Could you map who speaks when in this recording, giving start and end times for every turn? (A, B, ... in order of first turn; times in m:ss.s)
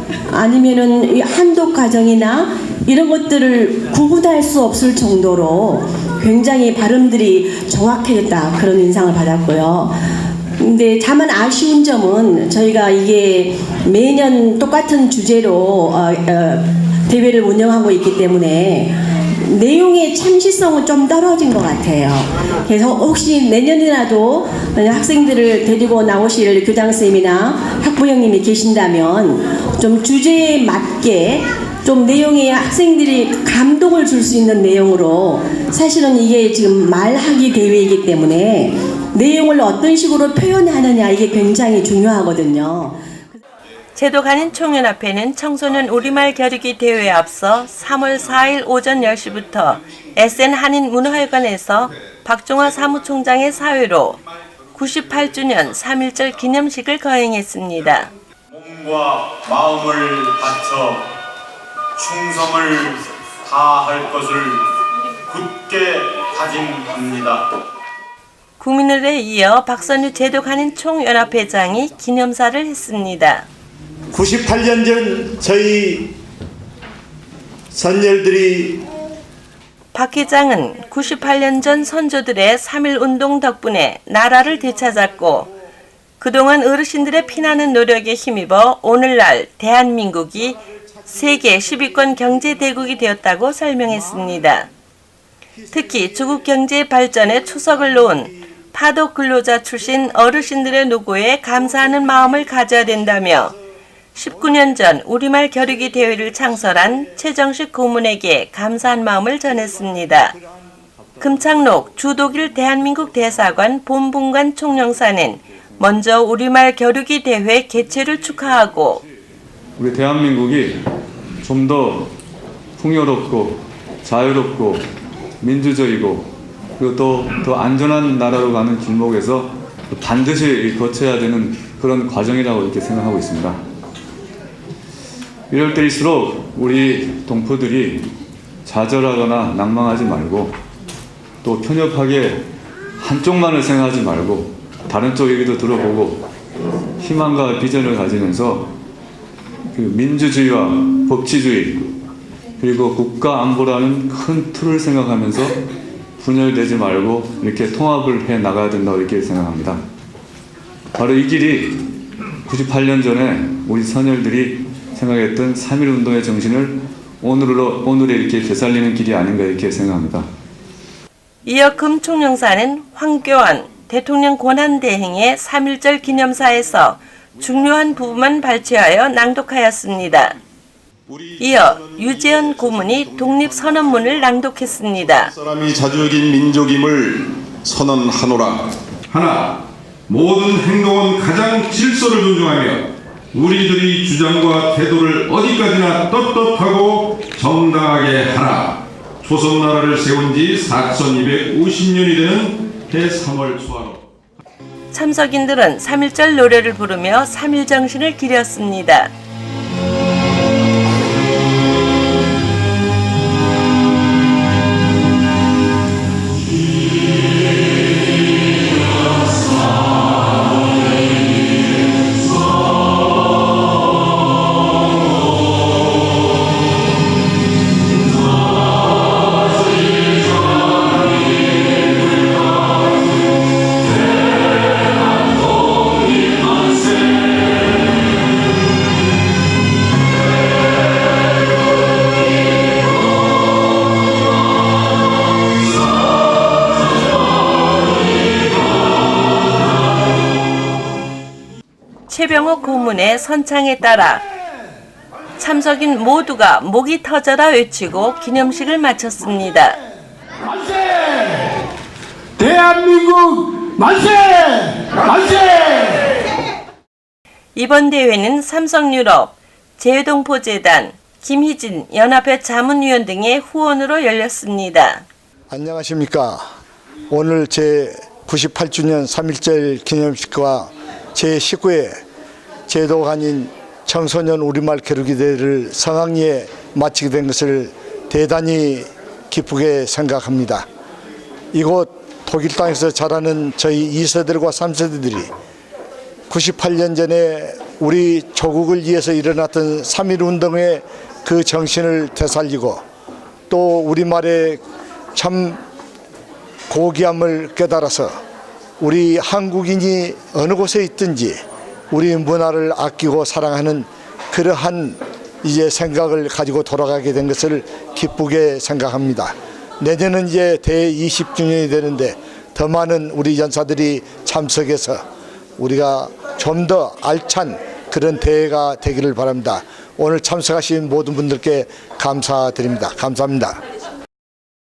0:00.3-0:09.9 A
0:10.6-0:43.1 A
0:43.9-0:54.2 B
0:54.7-0:58.1 B
0:58.5-1:01.0 C
1:02.0-1:04.6 C
1:05.3-1:07.4 C
1:08.6-1:13.5 B
1:14.1-1:16.1 D
1:17.7-1:18.8 D
1:19.9-1:25.5 B
1:26.2-1:34.7 B
1:35.7-1:43.5 B
1:44.1-1:50.3 B
1:51.2-1:59.0 B
1:59.8-2:00.8 E
2:01.4-2:02.1 E
2:02.8-2:04.8 E
2:05.4-2:13.6 E
2:15.5-2:18.1 E
2:18.6-2:20.6 E
2:21.4-2:22.4 E
2:23.0-2:26.2 E
2:27.0-2:28.7 E
2:29.7-2:31.9 E
2:32.6-2:35.6 E
2:36.2-2:39.8 E
2:40.9-2:41.9 E
2:42.4-2:50.3 E
2:51.4-3:00.4 B
3:01.1-3:03.6 F
3:01.4-3:05.3 B
3:05.2-3:24.0 F
3:24.9-3:29.1 B
4:12.1-4:14.2 B
4:15.4-4:19.8 B
4:27.5-4:35.0 B
4:35.5-4:36.4 D
4:37.1-4:42.0 D
4:42.7-4:50.6 D
4:51.5-4:55.3 D
4:56.3-5:02.8 D
5:03.5-5:04.6 D
5:05.1-5:05.6 D
5:06.7-5:08.2 D
5:08.8-5:11.4 D
5:11.9-5:25.0 D
5:25.6-5:33.6 D